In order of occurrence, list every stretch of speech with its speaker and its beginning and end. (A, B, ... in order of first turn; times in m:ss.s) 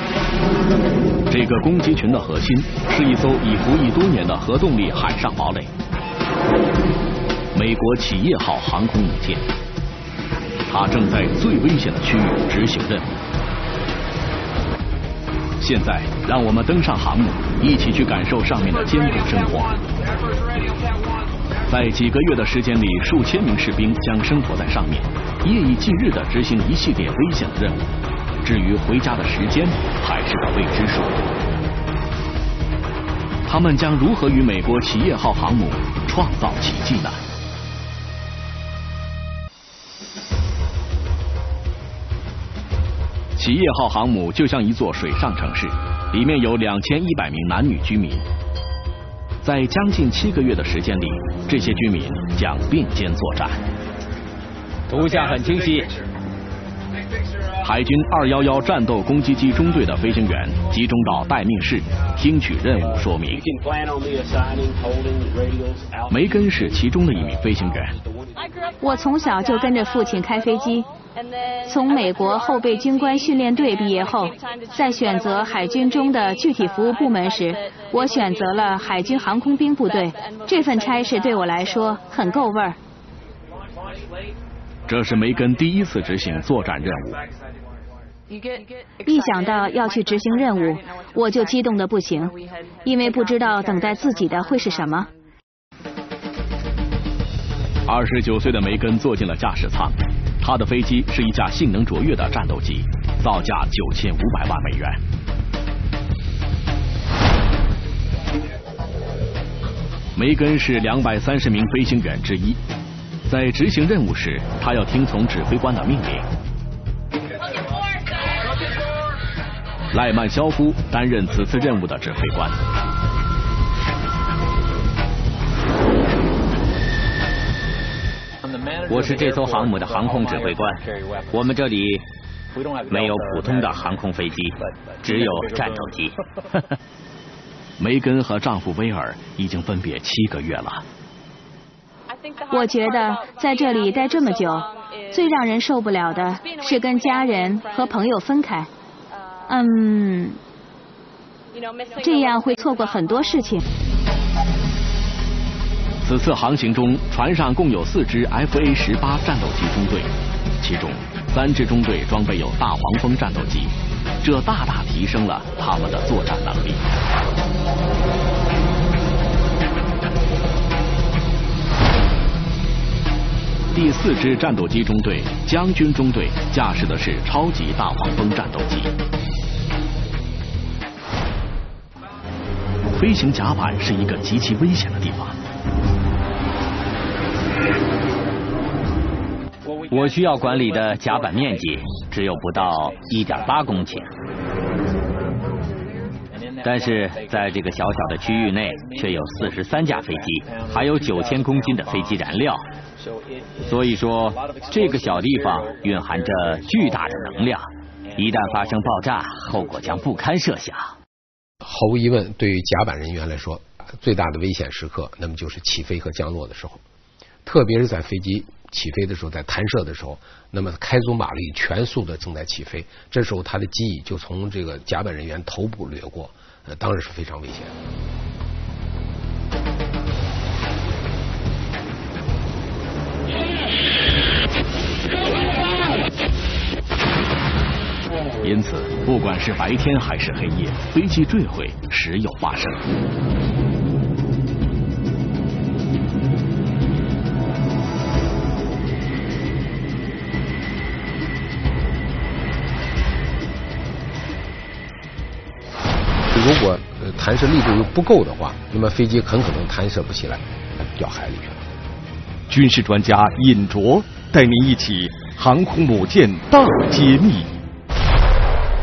0:01.3-0:05.7 A
0:07.5-0:09.4 A
0:10.7-0:13.1 A
0:15.6-0:19.7 A
0:21.7-0:27.9 A
0:28.4-0:31.2 A
0:33.4-0:37.2 A
0:43.4-0:48.2 A
0:49.4-0:53.6 A
0:54.9-0:55.9 B
0:57.6-1:03.5 A
1:06.1-1:07.9 A
1:08.8-1:10.8 C
1:11.6-1:22.8 C
1:24.9-1:27.2 A
1:29.0-1:35.1 C
1:37.8-1:45.0 A
1:50.1-1:52.6 A
1:53.3-1:56.2 A
1:59.9-2:02.6 A
2:08.8-2:12.0 B
2:12.9-2:16.6 B
2:17.8-2:20.8 A
2:22.5-2:28.7 C
2:29.5-2:30.4 C
2:32.0-2:33.6 C
2:36.0-2:46.8 A
2:53.7-2:58.9 A
3:02.9-3:05.4 A
3:09.9-3:14.1 B
3:16.6-3:22.6 B
3:23.6-3:31.0 B
3:31.6-3:36.8 D
3:37.4-3:47.7 D
3:58.4-4:02.8 A
4:16.3-4:21.6 D
4:22.5-4:27.6 E